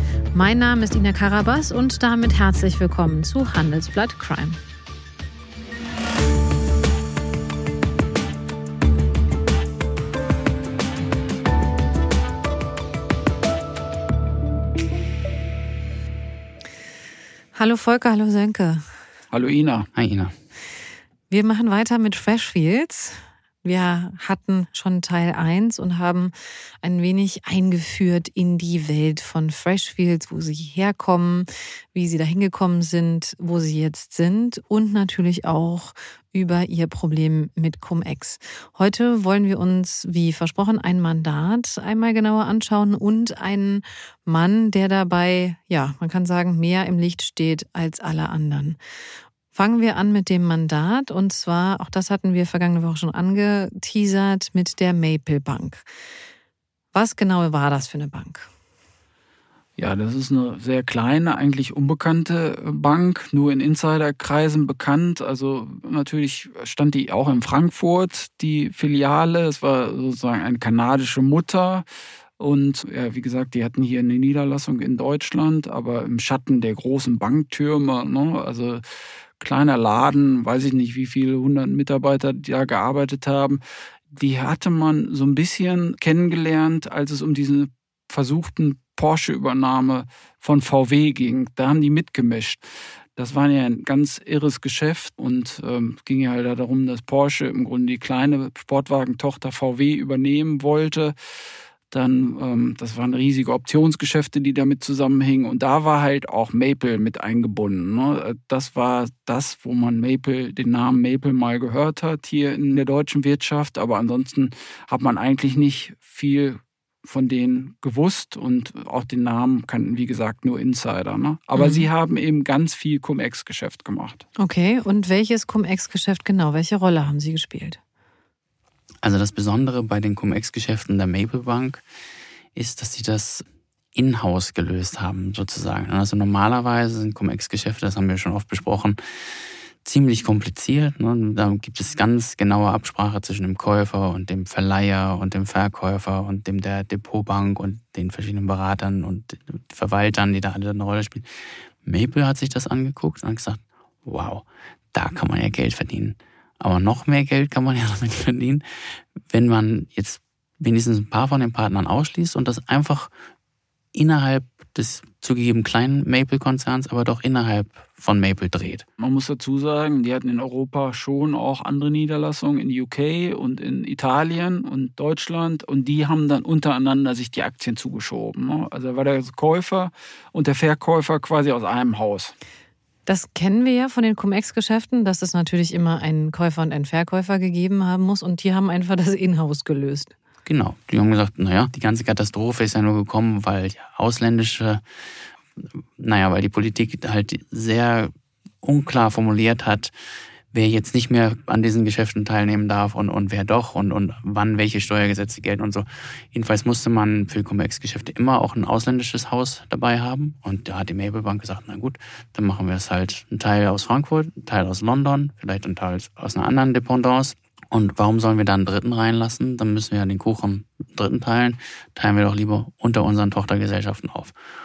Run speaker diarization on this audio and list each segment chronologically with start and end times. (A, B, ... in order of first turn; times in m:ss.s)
0:00.3-0:04.6 A
0:17.5-0:18.8 A
0:19.3-0:19.9 B
0:19.9-0:20.3 C
0:21.3-0:48.8 A
0:49.5-0:55.8 A
0:56.9-0:58.5 A
0:59.8-1:11.8 B
1:12.4-1:18.8 B
1:19.4-1:23.6 B
1:24.1-1:32.6 B
1:33.2-1:41.1 B
1:41.9-2:04.2 B
2:01.6-2:01.9 A
2:04.4-2:07.8 A
2:09.0-2:11.8 C
2:12.5-2:19.0 C
2:19.8-2:31.3 C
2:31.8-2:38.6 C
2:39.2-2:43.1 C
2:43.9-2:48.8 C
2:49.0-3:02.3 B
3:03.1-3:10.1 A
3:10.4-3:14.8 C
3:16.0-3:19.9 C
3:20.5-3:44.3 C